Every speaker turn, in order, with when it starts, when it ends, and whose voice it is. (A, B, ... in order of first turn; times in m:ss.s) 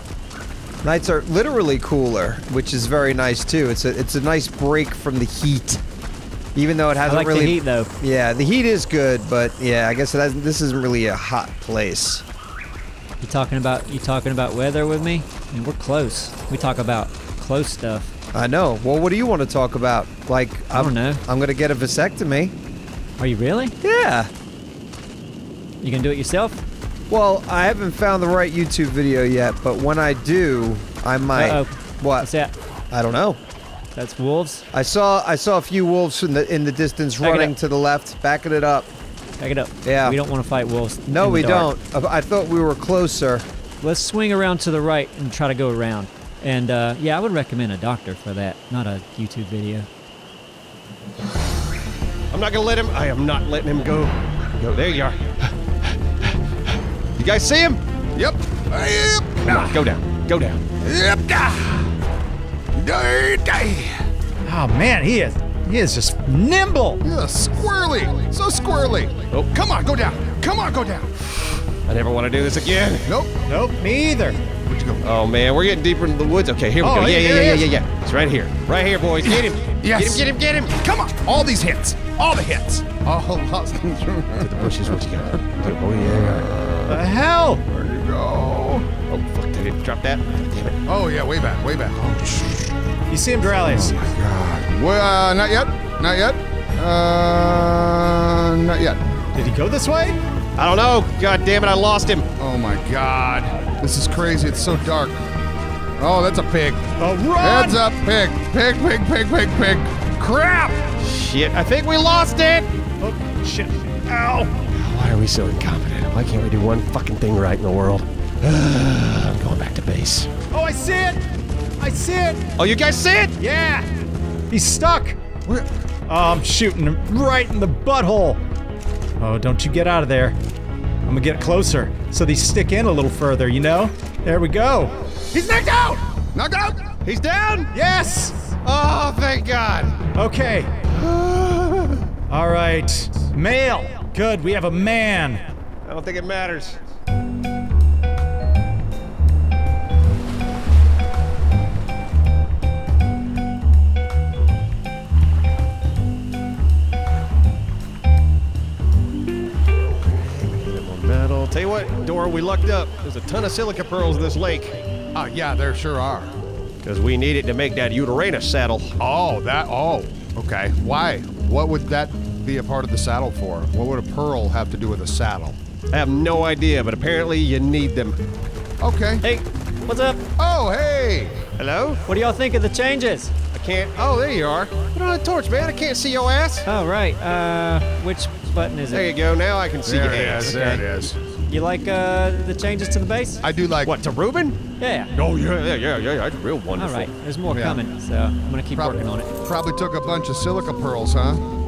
0:00.8-0:05.8 A
0:06.5-0:12.2 A
0:07.0-0:07.9 B
0:13.2-0:18.1 B
0:18.3-0:22.5 A
0:20.7-0:21.2 B
0:23.2-0:23.7 B
0:23.8-0:24.3 A
0:25.8-0:26.6 B
0:27.1-0:32.3 A
0:31.3-0:32.5 B
0:32.9-0:33.4 A
0:33.9-0:34.6 B
0:34.7-0:38.9 A
0:37.2-0:37.5 B
0:39.4-0:41.7 B
0:39.8-0:40.2 A
0:41.1-0:43.4 A
0:43.8-0:49.9 B
0:52.3-0:55.5 C
0:57.2-0:57.8 C
0:58.1-0:59.9 D
0:59.4-1:00.6 C
1:00.8-1:01.9 D
1:02.8-1:04.0 D
1:04.4-1:07.0 E
1:07.0-1:11.4 D
1:11.9-1:13.1 C
1:13.0-1:13.4 D
1:13.5-1:14.5 E
1:14.6-1:15.1 D
1:15.0-1:20.7 C
1:16.8-1:17.7 E
1:17.3-1:17.6 D
1:19.2-1:25.4 D
1:24.4-1:27.0 C
1:26.1-1:26.5 D
1:26.9-1:27.6 E
1:27.7-1:28.9 D
1:29.1-1:30.8 C
1:30.8-1:32.7 D
1:33.1-1:33.9 E
1:33.6-1:39.0 D
1:39.3-1:40.2 E
1:40.6-1:42.3 C
1:42.4-1:45.2 D
1:46.0-1:46.8 D
1:47.0-1:47.8 E
1:47.4-1:50.8 D
1:51.0-1:52.7 C
1:53.0-1:54.5 E
1:54.7-2:00.3 C
2:00.5-2:02.5 E
2:02.6-2:03.4 C
2:03.4-2:03.9 E
2:04.5-2:05.2 E
2:06.1-2:08.4 E
2:09.2-2:10.4 E
2:11.0-2:16.0 E
2:16.3-2:16.8 D
2:17.0-2:17.7 C
2:17.7-2:18.5 E
2:18.6-2:20.0 C
2:20.1-2:20.7 E
2:20.9-2:22.1 C
2:22.3-2:25.5 E
2:25.8-2:26.8 C
2:40.1-2:44.8 C
2:45.1-2:46.3 D
2:46.8-2:49.0 C
2:49.0-2:55.6 D
2:55.9-2:58.2 C
2:58.8-2:59.2 D
2:59.2-3:00.2 B
3:00.4-3:01.4 D
3:01.6-3:02.0 C
3:02.0-3:03.3 B
3:03.5-3:06.6 C
3:06.6-3:09.1 B
3:08.9-3:10.8 C
3:09.8-3:11.2 D
3:10.5-3:10.8 B
3:11.5-3:13.4 B
3:13.4-3:13.9 D
3:13.8-3:14.6 C
3:14.8-3:15.1 B
3:15.1-3:17.1 C
3:16.8-3:19.3 B
3:17.5-3:17.8 D
3:18.7-3:21.4 D